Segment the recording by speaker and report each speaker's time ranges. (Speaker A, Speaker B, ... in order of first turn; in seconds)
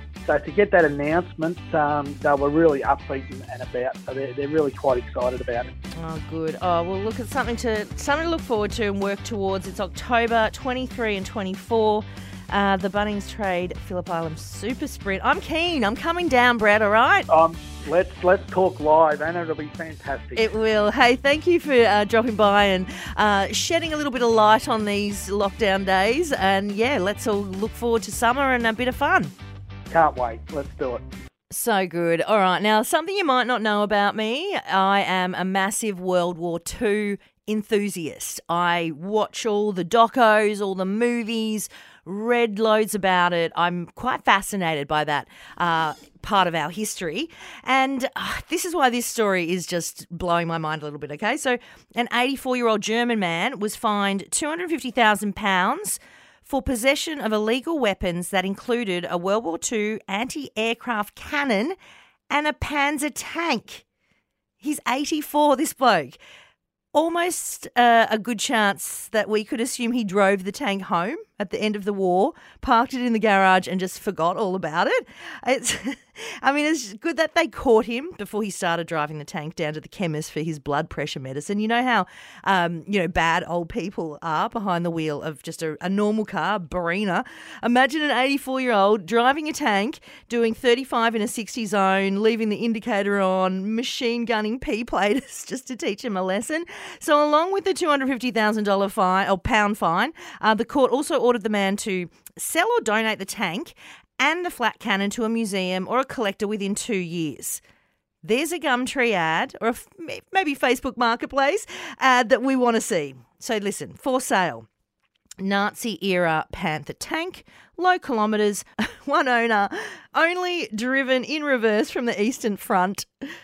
Speaker A: 0.2-5.7, 17.3-20.5, 29.9-31.0
Speaker B: 6.0-17.3, 20.4-29.3, 31.5-61.8, 62.3-63.8, 64.6-66.2, 66.9-107.6, 108.2-114.7, 115.4-123.1